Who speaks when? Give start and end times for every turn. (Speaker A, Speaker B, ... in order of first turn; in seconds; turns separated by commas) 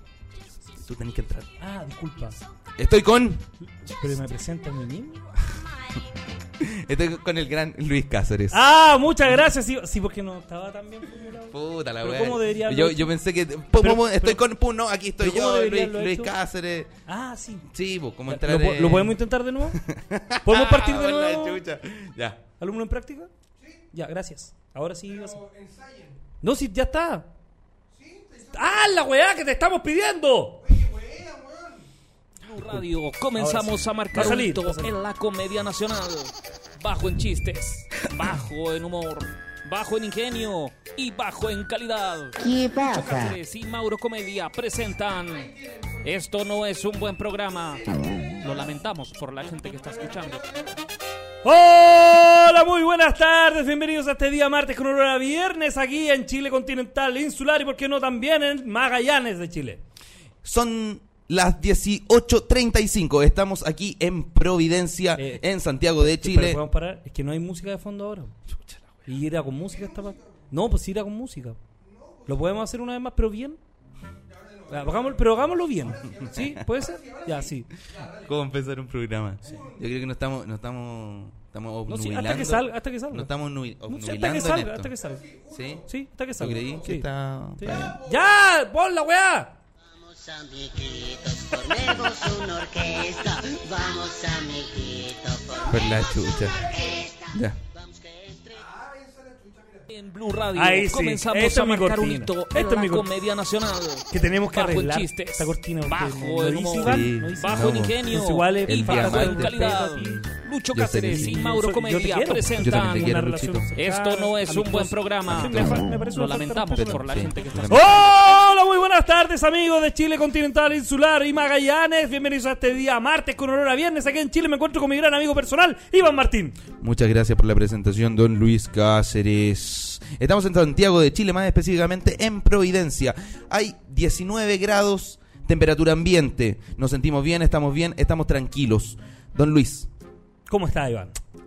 Speaker A: 0.7-1.5, Speaker B: 1.6-2.4, Speaker A: 2.8-3.5, Speaker B: 3.8-5.3, Speaker A: 6.6-8.7, Speaker B: 8.5-13.1, Speaker A: 11.5-16.9, Speaker B: 13.7-14.4, Speaker B: 15.2-16.3, Speaker B: 17.1-17.7, Speaker A: 17.7-22.4, Speaker B: 18.3-19.8, Speaker B: 20.4-21.6, Speaker B: 22.6-23.3, Speaker B: 23.9-25.4, Speaker B: 26.4-27.3, Speaker B: 28.5-30.8, Speaker C: 32.4-50.4, Speaker B: 33.4-34.9, Speaker D: 42.4-43.3, Speaker B: 51.4-59.8, Speaker A: 60.4-66.6, Speaker B: 65.2-65.4, Speaker B: 66.0-68.3, Speaker A: 68.5-69.0, Speaker B: 69.0-71.6, Speaker B: 72.2-73.6, Speaker B: 74.7-77.7, Speaker A: 76.1-76.6, Speaker A: 77.9-84.9, Speaker B: 81.9-83.3, Speaker B: 83.8-89.5, Speaker A: 85.4-85.8, Speaker A: 86.4-88.0, Speaker D: 89.8-98.8, Speaker A: 95.7-96.7, Speaker A: 97.3-97.6, Speaker C: 99.9-113.2, Speaker B: 100.5-103.1, Speaker B: 104.1-110.2, Speaker A: 106.8-108.1, Speaker A: 108.7-111.4, Speaker B: 111.1-117.0, Speaker A: 112.5-113.7, Speaker C: 113.8-118.4, Speaker A: 115.4-115.8, Speaker A: 116.7-118.0, Speaker B: 117.7-126.6, Speaker A: 126.8-139.9, Speaker B: 140.5-141.2